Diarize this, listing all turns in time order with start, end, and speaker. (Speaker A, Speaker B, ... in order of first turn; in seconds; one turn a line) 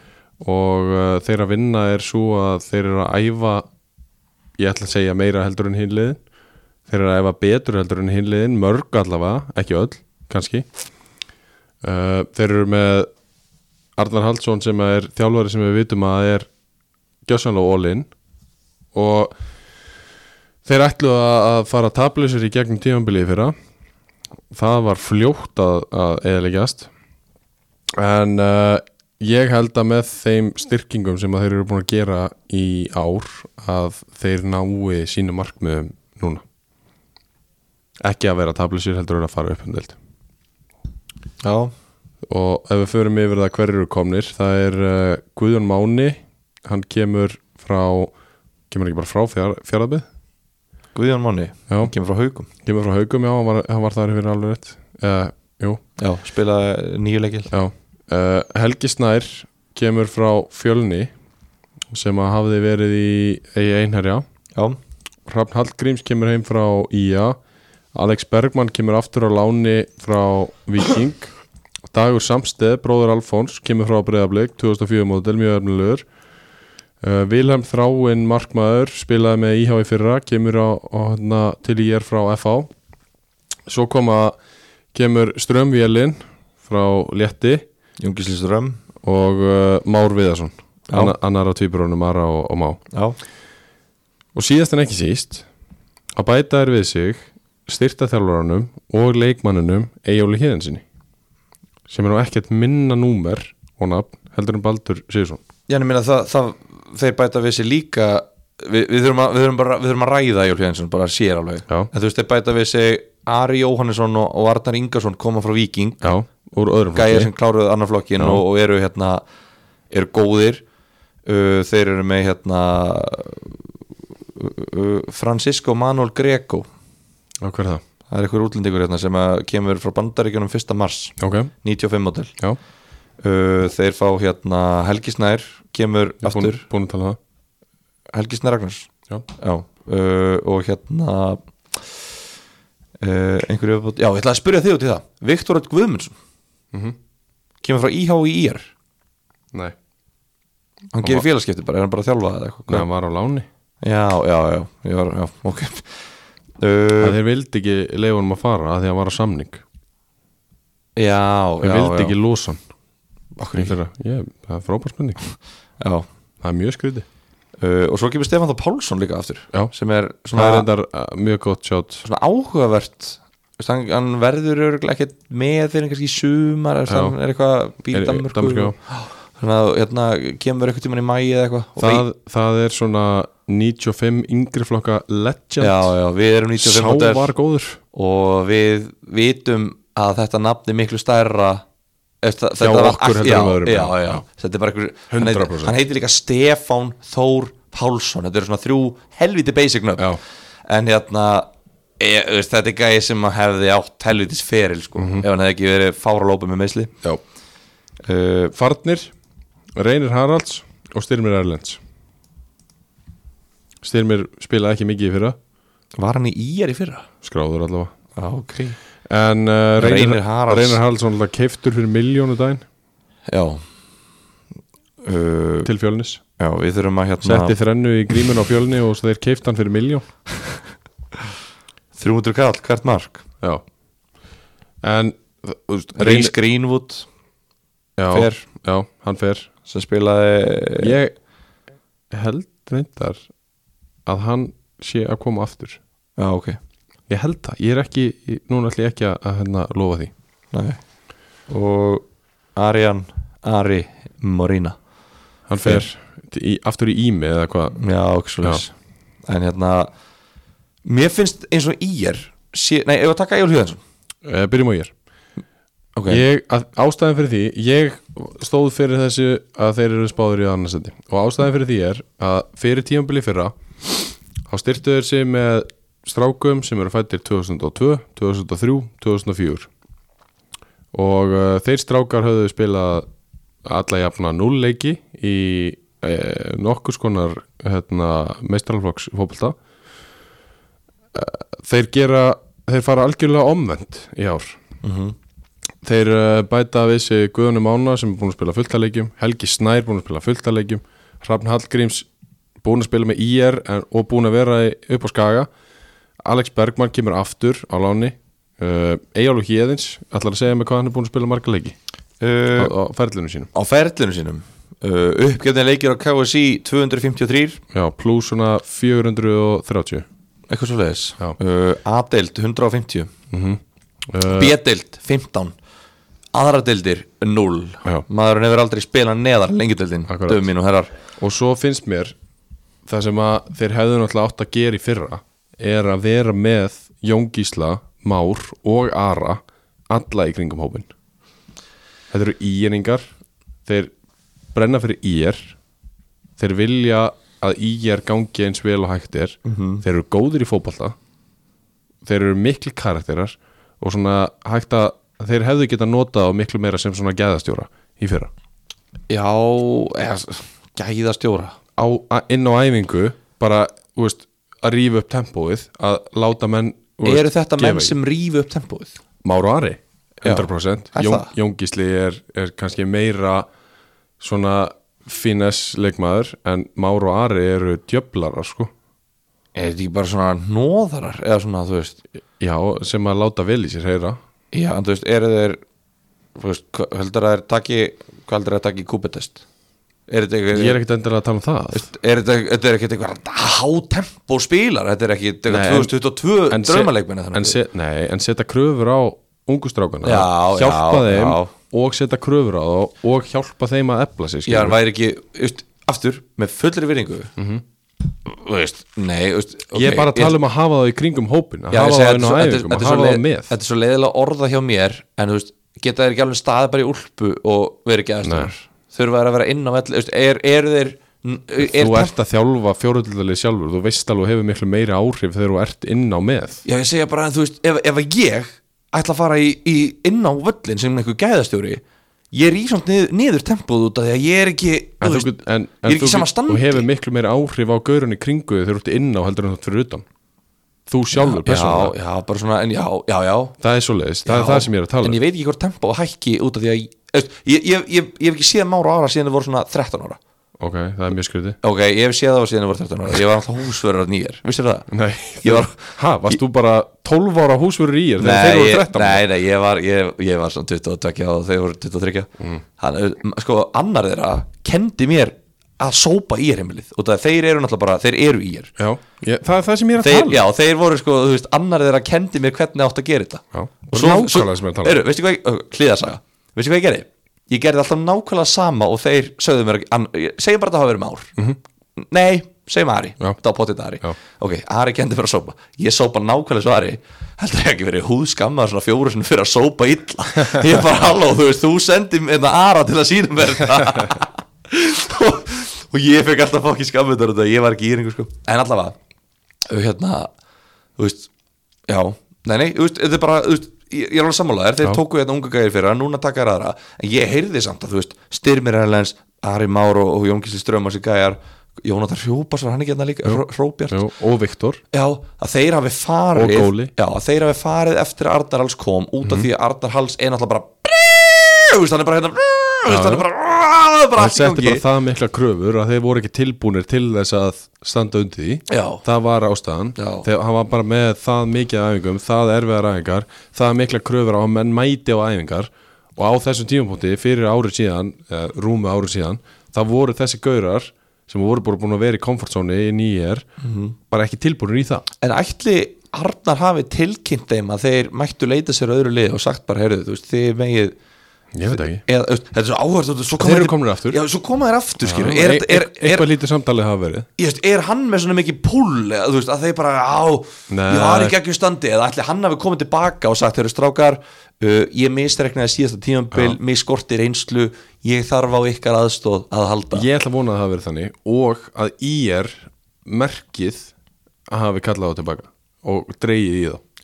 Speaker A: 0.4-3.7
Speaker A: 4.6-6.2
Speaker A: 6.9-10.7
Speaker A: 11.8-13.1
Speaker A: 14.0-16.5
Speaker A: 17.2-18.1
Speaker A: 18.9-19.3
Speaker A: 20.6-23.5
Speaker A: 24.5-26.9
Speaker A: 28.0-36.4
Speaker A: 38.0-40.0
Speaker B: 41.4-41.7
Speaker A: 42.2-48.1
Speaker A: 48.7-50.0
Speaker B: 50.9-52.5
Speaker A: 52.6-55.8
Speaker B: 56.0-57.5
Speaker A: 57.5-61.1
Speaker A: 61.9-64.2
Speaker A: 65.2-67.4
Speaker A: 67.9-71.3
Speaker A: 71.9-76.0
Speaker A: 77.0-82.7
Speaker A: 83.7-84.3
Speaker A: 84.9-87.7
Speaker B: 88.0-88.8
Speaker A: 89.0-92.8
Speaker B: 90.9-91.1
Speaker B: 92.9-93.2
Speaker A: 94.3-95.5
Speaker A: 96.2-100.8
Speaker A: 101.9-105.4
Speaker B: 105.7-116.1
Speaker A: 116.0-117.3
Speaker B: 116.9-119.2
Speaker B: 119.9-120.6
Speaker B: 121.2-123.6
Speaker B: 124.3-126.7
Speaker A: 127.4-127.8
Speaker B: 128.1-132.3
Speaker A: 131.2-131.5
Speaker B: 133.2-136.6
Speaker A: 136.2-137.2
Speaker B: 138.1-141.9
Speaker B: 143.0-146.1
Speaker B: 147.6-148.7
Speaker B: 150.9-152.9
Speaker A: 152.7-153.5
Speaker B: 153.8-155.9
Speaker B: 156.6-157.2
Speaker A: 157.0-159.6
Speaker B: 160.9-162.1
Speaker A: 161.6-162.6
Speaker B: 163.3-163.7
Speaker A: 163.5-165.2
Speaker B: 165.8-166.1
Speaker A: 166.4-167.1
Speaker B: 167.6-170.7
Speaker A: 170.3-172.0
Speaker B: 172.0-182.0
Speaker A: 176.9-177.2
Speaker A: 177.9-178.8
Speaker A: 181.8-185.9
Speaker B: 185.6-187.3
Speaker A: 186.6-187.8
Speaker B: 187.9-191.6
Speaker B: 192.2-201.5
Speaker A: 192.6-194.2
Speaker A: 195.1-195.7
Speaker B: 202.0-206.9
Speaker A: 205.0-205.2
Speaker B: 208.0-208.5
Speaker A: 208.5-209.1
Speaker A: 209.8-211.8
Speaker A: 213.8-215.4
Speaker B: 216.0-217.1
Speaker A: 217.2-217.9
Speaker B: 218.2-218.8
Speaker A: 219.1-222.6
Speaker B: 219.8-220.8
Speaker B: 223.3-223.6
Speaker B: 225.0-225.7
Speaker A: 225.6-226.2
Speaker B: 226.4-227.6
Speaker A: 227.2-230.1
Speaker B: 231.9-233.2
Speaker A: 234.8-236.3
Speaker B: 235.9-237.1
Speaker A: 238.0-239.5
Speaker B: 238.1-238.4
Speaker B: 239.7-240.9
Speaker A: 240.8-241.1
Speaker A: 242.1-243.2
Speaker A: 244.1-245.8
Speaker B: 246.2-246.6
Speaker A: 247.1-250.1
Speaker B: 250.5-250.8
Speaker B: 251.5-252.0
Speaker B: 252.6-254.8
Speaker A: 255.5-257.8
Speaker B: 257.8-258.7
Speaker B: 259.3-259.9
Speaker B: 260.8-263.8
Speaker A: 264.2-264.9
Speaker B: 265.9-266.2
Speaker A: 266.1-273.5
Speaker A: 274.5-279.7
Speaker A: 280.9-283.1
Speaker A: 283.6-289.6
Speaker A: 291.1-294.6
Speaker B: 294.8-295.1
Speaker A: 295.8-302.1
Speaker A: 302.6-305.5
Speaker A: 306.2-311.8
Speaker B: 312.2-312.7
Speaker A: 312.6-313.5
Speaker B: 313.5-317.6
Speaker A: 317.7-320.1
Speaker B: 320.5-323.1
Speaker A: 323.3-324.6
Speaker B: 324.3-325.6
Speaker B: 326.3-331.0
Speaker A: 330.1-330.5
Speaker A: 331.2-332.1
Speaker A: 332.9-340.9
Speaker A: 342.1-343.1
Speaker A: 343.6-343.9
Speaker A: 344.5-345.6
Speaker A: 346.4-350.9
Speaker B: 349.4-349.8
Speaker A: 352.0-358.3
Speaker B: 359.1-361.6
Speaker A: 361.8-367.9
Speaker B: 367.0-368.9
Speaker A: 369.2-373.5
Speaker B: 370.2-371.3
Speaker A: 374.2-378.7
Speaker B: 379.5-382.0
Speaker A: 382.4-384.2
Speaker B: 384.5-385.6
Speaker B: 386.4-389.4
Speaker B: 390.1-390.8
Speaker A: 390.5-391.9
Speaker B: 391.7-397.6
Speaker A: 395.5-395.9
Speaker A: 396.5-404.8
Speaker B: 400.0-401.5
Speaker B: 404.4-407.3
Speaker A: 407.4-407.6
Speaker B: 408.2-410.4
Speaker A: 409.7-413.5
Speaker B: 411.7-422.1
Speaker A: 418.2-418.5
Speaker A: 421.6-426.6
Speaker B: 426.6-436.8
Speaker A: 435.0-440.0
Speaker A: 440.9-441.9
Speaker B: 441.1-443.6
Speaker A: 443.6-445.2
Speaker B: 444.2-450.2
Speaker A: 450.6-451.6
Speaker B: 451.6-454.9
Speaker A: 454.9-459.2
Speaker B: 455.4-456.4
Speaker B: 458.2-468.7
Speaker A: 468.8-470.4
Speaker B: 470.0-481.3
Speaker A: 473.5-475.0
Speaker B: 482.0-498.9
Speaker B: 499.7-500.3
Speaker B: 501.0-501.3
Speaker B: 501.9-514.1
Speaker A: 513.2-514.8
Speaker B: 514.9-524.8
Speaker A: 516.3-516.9
Speaker A: 522.9-523.2
Speaker A: 524.1-543.5
Speaker B: 528.7-529.0
Speaker B: 530.0-530.3
Speaker B: 543.6-544.0
Speaker A: 544.1-545.0
Speaker B: 545.2-551.0
Speaker A: 551.5-552.0
Speaker B: 551.7-556.2
Speaker A: 553.4-554.2
Speaker A: 555.0-557.3
Speaker B: 557.4-570.1
Speaker A: 560.7-561.3
Speaker A: 569.9-573.9
Speaker A: 574.5-576.8